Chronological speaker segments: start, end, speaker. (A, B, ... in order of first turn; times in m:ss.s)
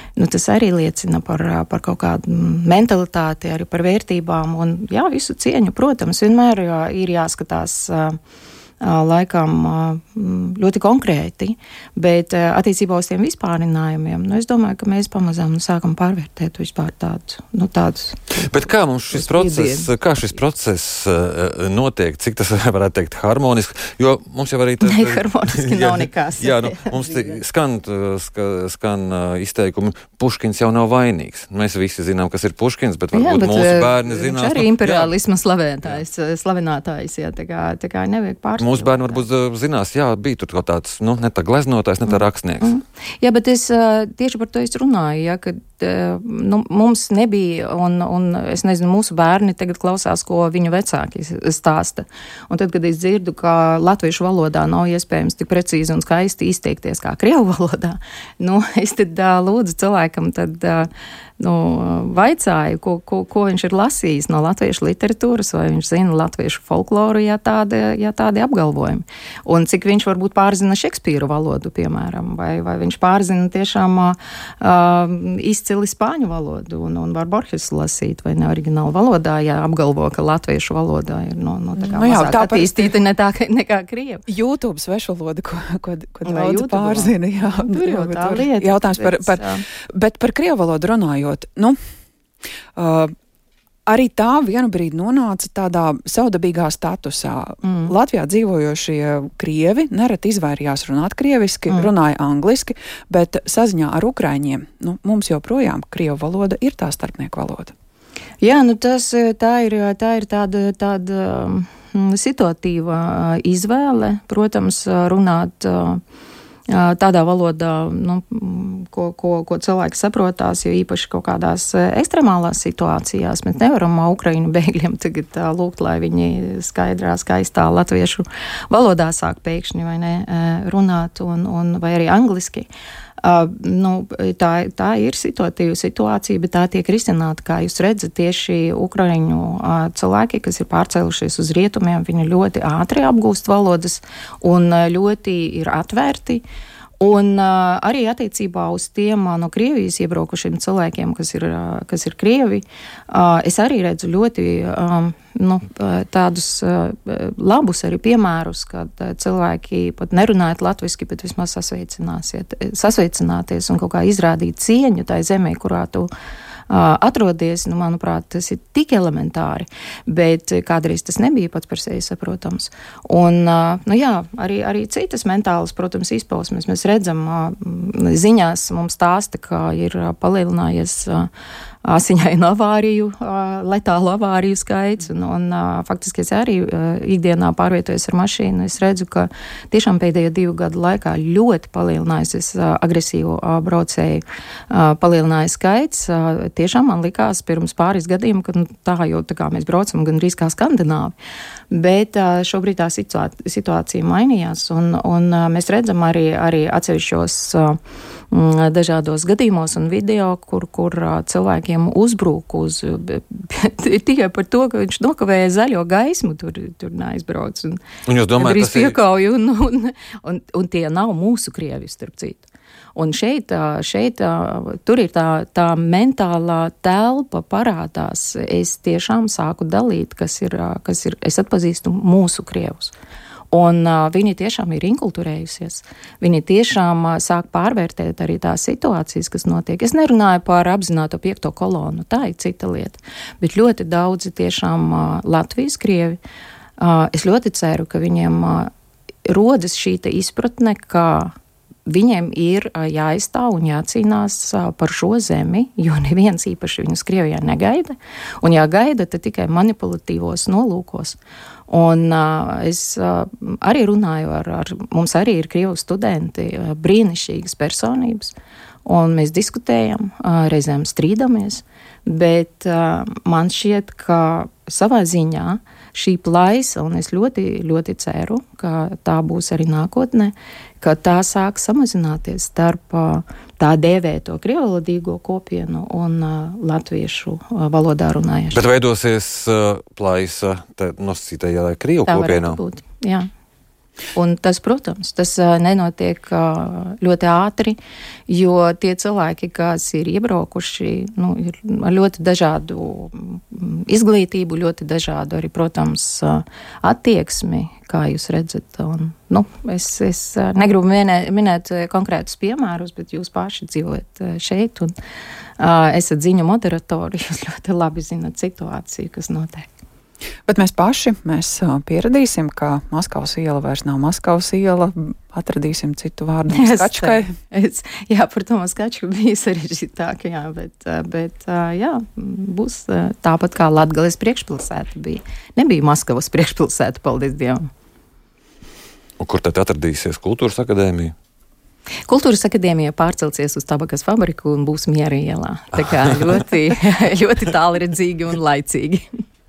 0:00.2-0:08.2 A
0:08.8-0:18.3 A
0:18.3-0:35.1 B
0:19.1-0:19.9 A
0:24.8-0:27.4 A
0:33.1-0:39.2 A
0:38.6-0:42.7 B
0:42.1-1:24.2 A
1:21.8-1:22.9 C
1:24.3-1:31.8 C
1:26.2-1:29.6 A
1:32.8-1:33.1 C
1:33.9-1:47.7 C
1:37.6-1:37.9 A
1:48.4-1:56.0 A
1:56.7-2:12.7 A
2:13.2-2:26.4 A
2:27.0-2:46.1 A
2:46.7-3:01.3 A
3:01.8-3:21.1 A
3:21.7-3:27.8 A
3:28.3-3:37.8 A
3:38.1-3:38.9 B
3:38.4-3:52.9 A
3:53.5-4:06.2 A
4:06.8-4:08.7 A
4:09.2-4:11.3 A
4:11.9-4:21.2 A
4:21.7-4:48.6 A
4:48.5-4:52.6 B
4:52.1-4:53.2 A
4:54.1-5:14.9 A
5:15.6-5:19.7 A
5:20.5-5:27.4 C
5:26.5-5:37.6 A
5:39.2-5:41.1 B
5:42.1-5:49.1 A